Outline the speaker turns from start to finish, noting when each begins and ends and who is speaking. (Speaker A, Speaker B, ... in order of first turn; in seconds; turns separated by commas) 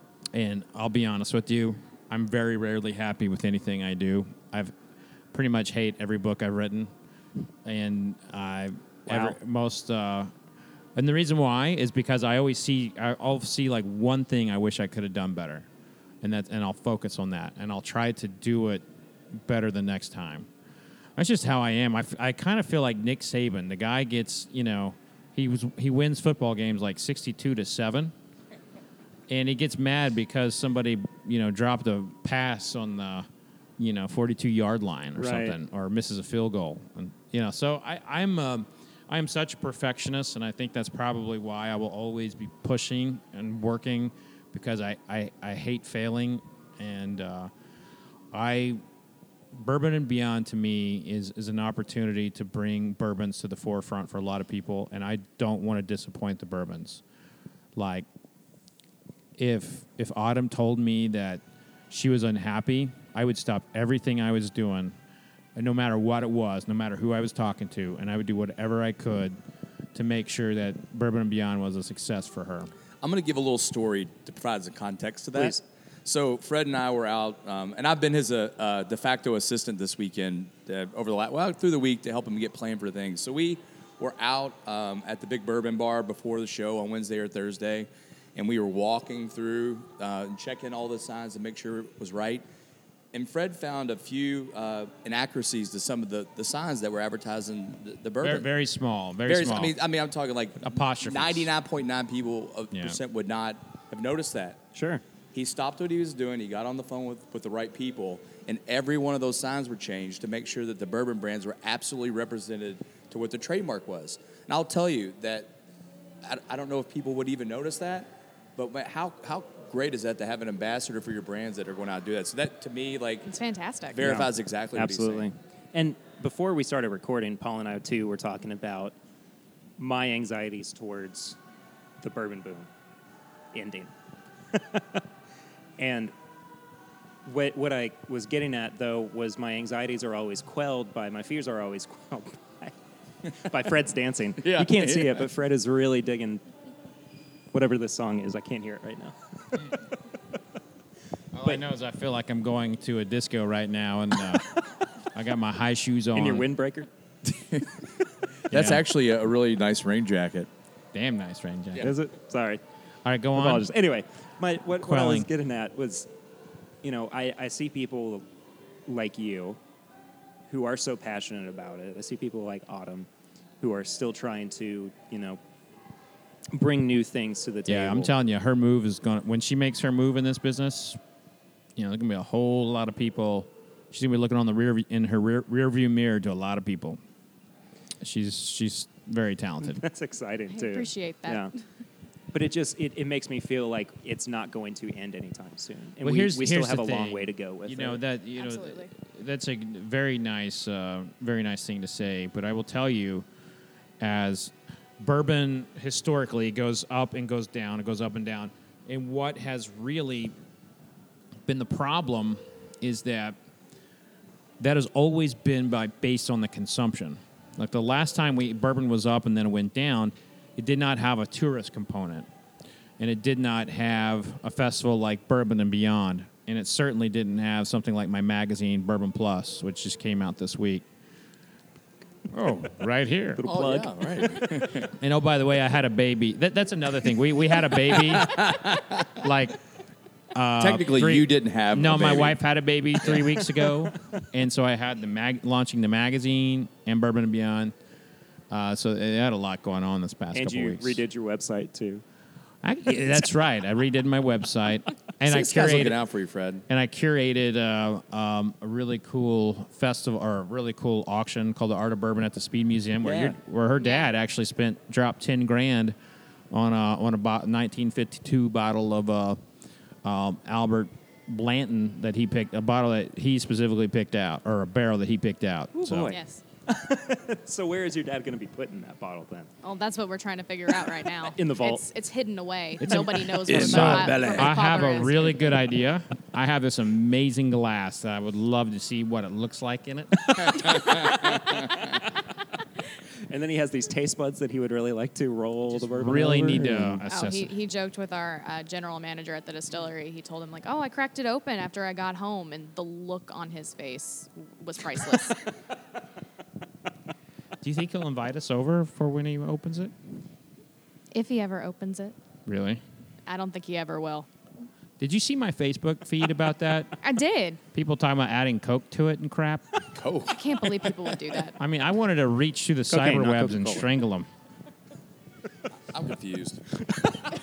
Speaker A: 0.3-4.7, Speaker A: 5.3-6.9, Speaker A: 7.7-10.3, Speaker B: 9.1-9.4, Speaker A: 10.9-15.7, Speaker A: 16.2-20.5, Speaker A: 21.2-28.1, Speaker A: 29.3-47.5, Speaker B: 35.2-35.6, Speaker A: 48.3-48.8, Speaker A: 49.5-57.0, Speaker A: 57.8-58.1, Speaker A: 59.4-64.9, Speaker A: 65.5-69.4, Speaker A: 69.9-72.7, Speaker C: 73.0-92.4, Speaker B: 75.3-75.6, Speaker C: 93.1-98.5, Speaker A: 98.2-99.8, Speaker C: 99.3-104.6, Speaker A: 100.6-101.5, Speaker A: 102.7-103.0, Speaker B: 104.7-105.0, Speaker C: 105.3-115.5, Speaker C: 116.2-123.3, Speaker D: 123.2-124.0, Speaker C: 123.9-125.3, Speaker B: 124.0-128.9, Speaker B: 129.8-131.4, Speaker B: 132.0-132.7, Speaker B: 133.5-133.9, Speaker B: 134.5-135.0, Speaker B: 135.8-136.1, Speaker B: 137.2-142.7, Speaker B: 143.3-146.4, Speaker C: 144.4-145.2, Speaker B: 147.5-149.2, Speaker A: 151.3-154.5, Speaker A: 155.1-156.5, Speaker B: 156.2-156.9, Speaker C: 157.2-157.8, Speaker C: 158.5-160.5, Speaker A: 158.5-158.8, Speaker A: 160.9-161.9, Speaker B: 161.8-162.6, Speaker A: 163.1-163.7, Speaker B: 163.3-166.1, Speaker A: 164.8-165.3, Speaker B: 166.8-168.2, Speaker B: 168.9-169.6, Speaker B: 170.5-173.1, Speaker B: 173.6-175.4, Speaker B: 176.5-178.1, Speaker A: 177.7-181.0, Speaker A: 181.8-187.0, Speaker A: 188.0-189.8, Speaker B: 189.6-191.5, Speaker D: 190.5-191.6, Speaker B: 192.3-198.0, Speaker A: 196.0-203.3, Speaker D: 198.4-198.9, Speaker A: 204.0-210.3, Speaker A: 211.5-213.4, Speaker A: 214.6-222.3, Speaker A: 223.0-230.8, Speaker A: 232.3-233.4, Speaker B: 233.4-234.4, Speaker C: 233.4-234.9, Speaker A: 234.9-238.5, Speaker C: 237.9-239.2, Speaker A: 239.2-239.6, Speaker A: 240.3-247.7, Speaker C: 240.6-242.4, Speaker A: 248.5-251.0, Speaker B: 250.3-252.0, Speaker A: 252.6-256.0, Speaker C: 255.2-256.7, Speaker A: 256.7-265.9, Speaker B: 263.0-263.4, Speaker D: 263.8-264.1, Speaker A: 266.5-269.4, Speaker A: 270.0-276.1, Speaker B: 275.8-279.5, Speaker D: 276.1-276.4, Speaker D: 279.6-285.5, Speaker B: 281.2-281.8, Speaker A: 282.8-291.0, Speaker B: 282.9-283.4, Speaker C: 283.5-284.5, Speaker B: 290.4-292.0, Speaker B: 293.3-297.0, Speaker A: 295.7-297.5, Speaker D: 297.1-305.4, Speaker A: 307.6-309.9, Speaker D: 311.1-312.1, Speaker A: 312.5-312.8, Speaker D: 313.3-314.3, Speaker A: 315.0-316.9, Speaker D: 317.0-317.6, Speaker A: 317.7-319.7, Speaker C: 319.9-320.4, Speaker D: 320.3-321.6, Speaker A: 321.6-324.3, Speaker B: 322.9-323.9, Speaker C: 325.9-326.8